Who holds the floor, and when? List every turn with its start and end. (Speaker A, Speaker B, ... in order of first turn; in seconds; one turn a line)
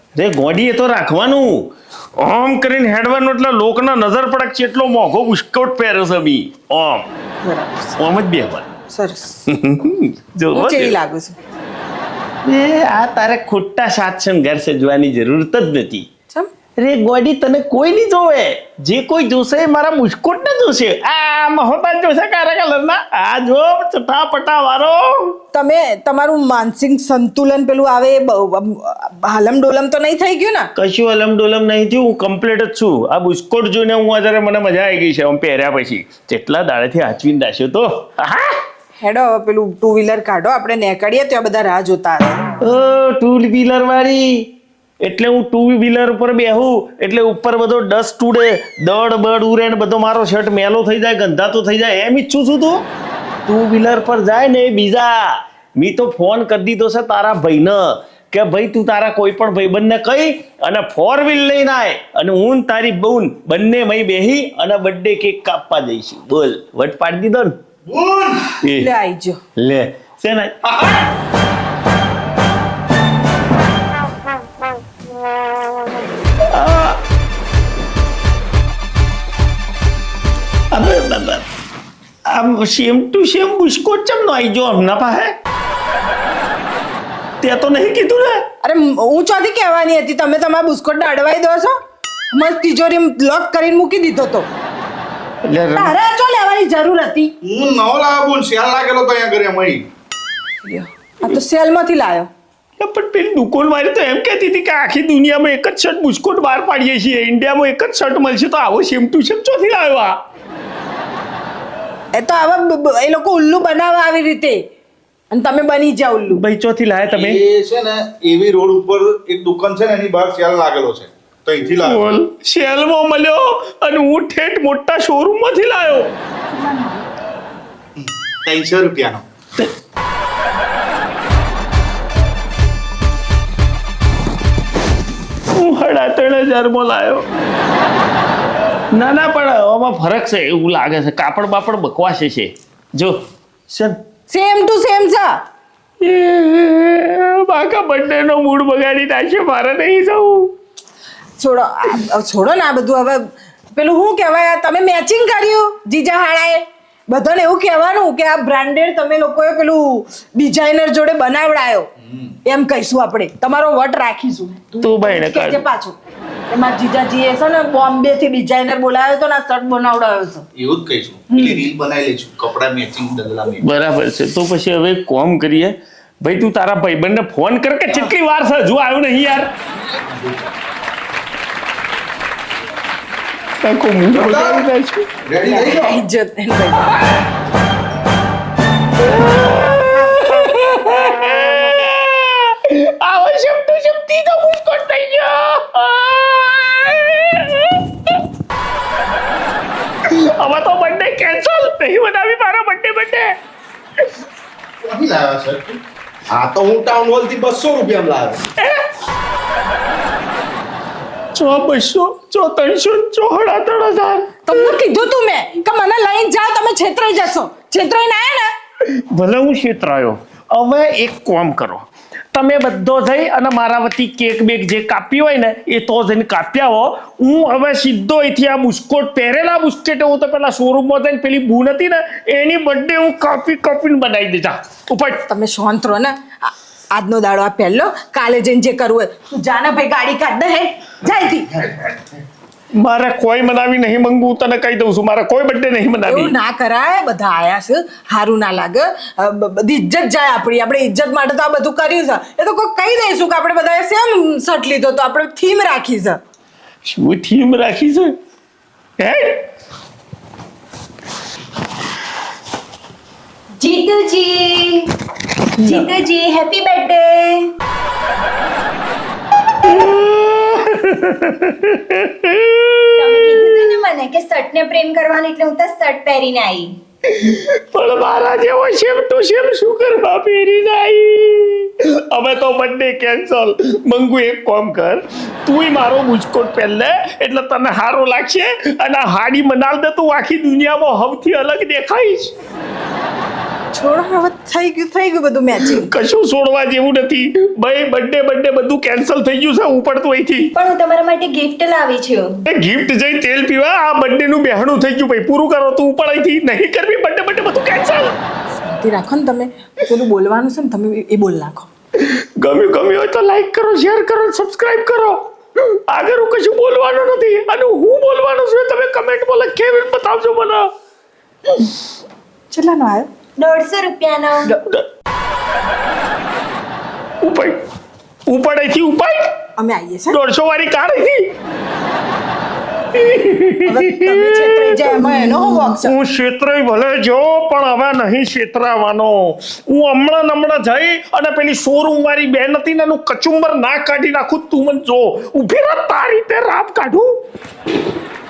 Speaker A: 0.1-7.1
Speaker B: 7.4-8.0
Speaker A: 8.0-8.7
Speaker B: 8.9-9.5
Speaker A: 9.5-11.0
Speaker B: 10.5-11.4
Speaker A: 12.4-16.1
Speaker A: 16.8-25.4
Speaker B: 25.5-30.7
Speaker A: 30.8-38.6
Speaker B: 39.0-42.4
Speaker A: 42.6-52.9
Speaker A: 53.5-67.6
Speaker C: 67.8-68.5
Speaker A: 68.6-68.9
Speaker B: 68.7-69.4
Speaker A: 69.5-70.6
Speaker C: 70.6-71.0
Speaker A: 76.4-77.0
Speaker A: 80.7-81.5
Speaker A: 82.2-85.4
Speaker A: 87.4-88.5
Speaker B: 88.6-91.7
Speaker B: 92.3-94.5
Speaker A: 95.4-96.0
Speaker B: 95.7-97.3
Speaker C: 97.4-99.8
Speaker B: 100.6-102.3
Speaker A: 102.8-110.2
Speaker B: 112.1-114.6
Speaker B: 115.3-116.4
Speaker A: 116.3-117.4
Speaker C: 117.1-122.1
Speaker A: 121.8-126.1
Speaker B: 126.5-127.0
Speaker C: 128.0-129.2
Speaker A: 135.5-137.2
Speaker A: 138.9-144.0
Speaker B: 144.3-145.4
Speaker A: 146.0-150.5
Speaker B: 151.4-161.9
Speaker B: 162.4-166.0
Speaker A: 164.8-165.6
Speaker B: 166.5-170.5
Speaker C: 170.6-173.6
Speaker B: 171.3-171.6
Speaker A: 173.6-179.5
Speaker C: 179.8-180.5
Speaker A: 183.6-185.1
Speaker C: 184.1-184.7
Speaker C: 185.2-186.0
Speaker B: 185.4-187.0
Speaker A: 189.0-198.2
Speaker A: 200.0-203.3
Speaker C: 204.8-205.8
Speaker C: 206.3-208.5
Speaker A: 208.6-208.8
Speaker A: 211.3-214.3
Speaker B: 214.4-218.5
Speaker A: 218.8-235.2
Speaker B: 235.3-241.8
Speaker A: 242.7-246.3
Speaker B: 246.0-256.2
Speaker A: 256.8-258.1
Speaker A: 259.0-259.4
Speaker D: 263.6-264.9
Speaker D: 265.6-267.5
Speaker A: 269.6-273.6
Speaker D: 273.0-276.7
Speaker A: 277.1-292.3
Speaker B: 293.7-295.9
Speaker A: 295.6-300.5
Speaker D: 300.5-302.4
Speaker A: 302.4-308.2
Speaker B: 308.6-311.7
Speaker A: 311.9-320.7
Speaker B: 322.5-323.1
Speaker D: 323.4-324.5
Speaker A: 327.2-327.6
Speaker A: 328.3-329.3
Speaker B: 329.6-330.2
Speaker A: 330.1-331.3
Speaker A: 332.9-347.2
Speaker B: 333.6-335.9